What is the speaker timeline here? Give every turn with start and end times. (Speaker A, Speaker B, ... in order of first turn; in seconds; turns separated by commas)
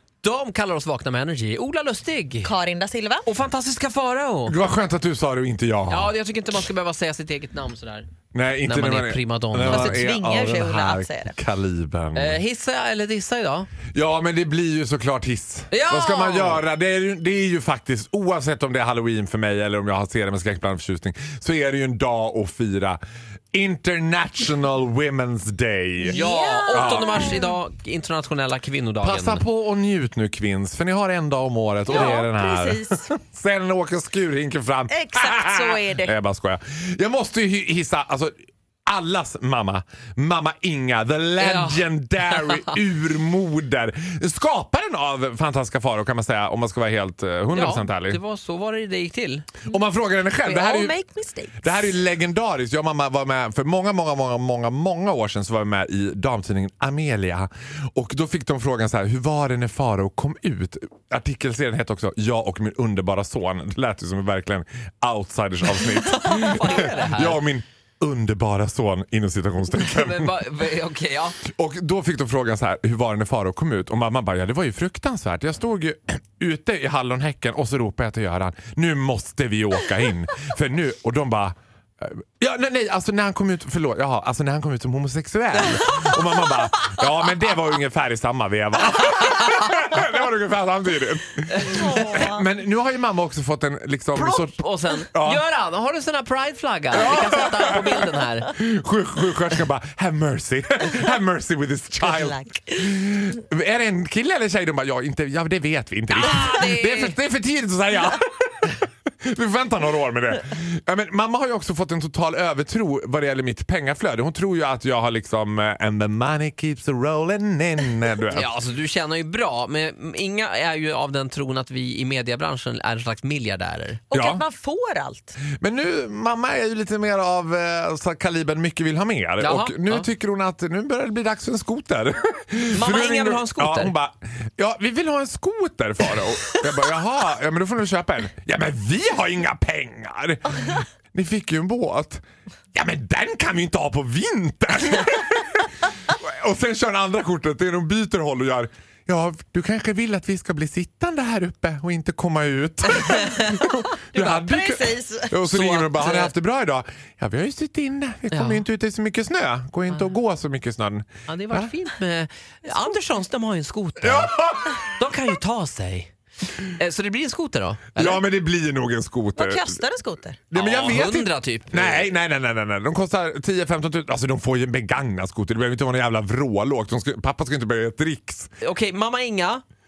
Speaker A: 0.2-2.5, Speaker B: 2.4-3.3, Speaker A: 3.2-4.5, Speaker C: 4.5-6.1, Speaker A: 5.9-8.1, Speaker C: 8.3-12.4, Speaker A: 8.7-10.1, Speaker B: 9.6-11.4, Speaker A: 12.1-13.7, Speaker C: 13.9-23.0, Speaker A: 15.7-16.6, Speaker C: 23.5-27.3, Speaker B: 26.0-27.4, Speaker A: 26.1-29.4, Speaker C: 29.0-38.3, Speaker B: 31.9-33.1, Speaker B: 34.9-36.1, Speaker C: 38.9-48.2, Speaker A: 41.4-42.7, Speaker A: 47.5-49.5, Speaker C: 49.7-50.9, Speaker B: 50.4-51.7, Speaker C: 51.6-70.4, Speaker A: 66.2-67.4, Speaker A: 69.7-71.4, Speaker C: 71.4-95.4, Speaker A: 91.6-92.0, Speaker B: 92.0-92.2, Speaker A: 94.1-98.5, Speaker C: 96.9-118.5, Speaker B: 102.0-102.6, Speaker A: 106.1-107.2, Speaker A: 118.3-124.0, Speaker B: 124.1-125.4, Speaker C: 124.1-124.4, Speaker C: 125.5-142.2, Speaker A: 129.4-130.1, Speaker A: 132.7-133.9, Speaker C: 142.7-161.7, Speaker B: 154.1-156.3, Speaker A: 158.3-158.7, Speaker A: 161.3-164.3, Speaker C: 164.0-164.9, Speaker A: 164.8-168.2, Speaker C: 167.9-169.8, Speaker B: 169.4-170.4, Speaker C: 170.5-178.5, Speaker A: 170.5-172.1, Speaker A: 178.6-179.6